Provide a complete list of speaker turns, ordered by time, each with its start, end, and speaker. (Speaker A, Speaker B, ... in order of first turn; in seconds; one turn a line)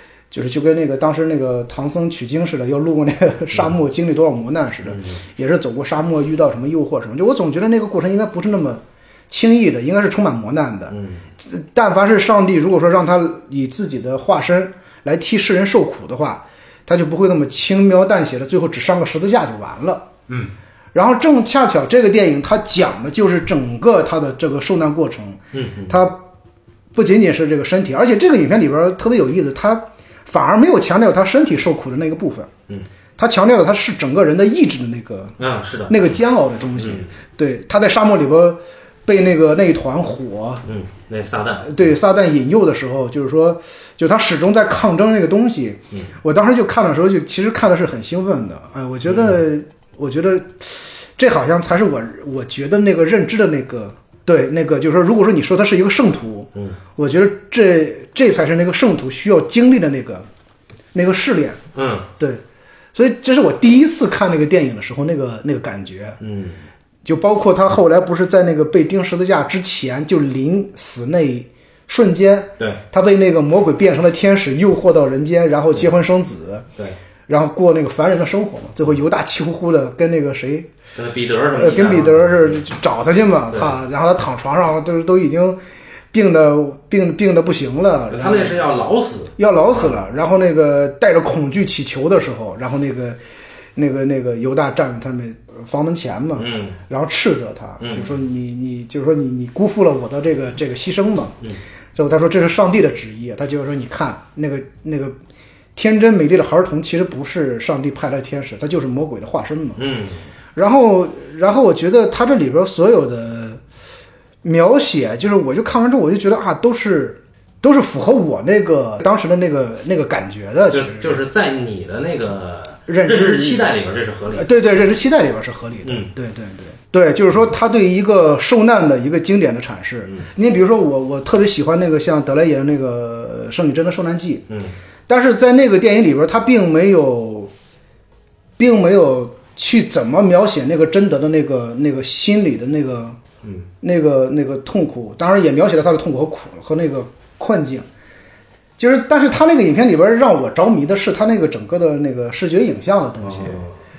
Speaker A: 0.3-20.1
Speaker B: 4.8-5.2
Speaker B: 10.9-11.3
Speaker A: 20.9-26.2
Speaker B: 25.5-26.1
Speaker A: 26.9-32.5
Speaker A: 33.2-35.4
Speaker B: 35.4-36.2
Speaker A: 35.9-40.6
Speaker B: 36.8-37.1
Speaker B: 40.6-41.9
Speaker A: 41.6-60.3
Speaker B: 49.1-49.4
Speaker A: 60.9-61.6
Speaker B: 61.7-62.1
Speaker A: 62.9-66.2
Speaker B: 66.2-66.6
Speaker A: 67.0-76.7
Speaker A: 77.3-80.7
Speaker B: 80.9-82.7
Speaker A: 81.5-85.6
Speaker B: 83.5-83.8
Speaker A: 86.1-88.6
Speaker B: 88.1-90.0
Speaker A: 89.4-93.2
Speaker A: 93.7-101.4
Speaker B: 96.3-96.8
Speaker B: 97.8-98.1
Speaker A: 101.9-105.2
Speaker A: 105.7-109.8
Speaker B: 109.8-110.3
Speaker A: 110.5-113.6
Speaker A: 114.4-121.2
Speaker B: 120.7-124.5
Speaker A: 122.9-123.7
Speaker A: 124.3-134.4
Speaker B: 125.8-126.1
Speaker B: 134.5-134.7
Speaker A: 135.1-137.5
Speaker A: 138.6-143.2
Speaker B: 143.4-143.7
Speaker A: 143.8-147.9
Speaker A: 148.8-153.6
Speaker B: 153.2-153.8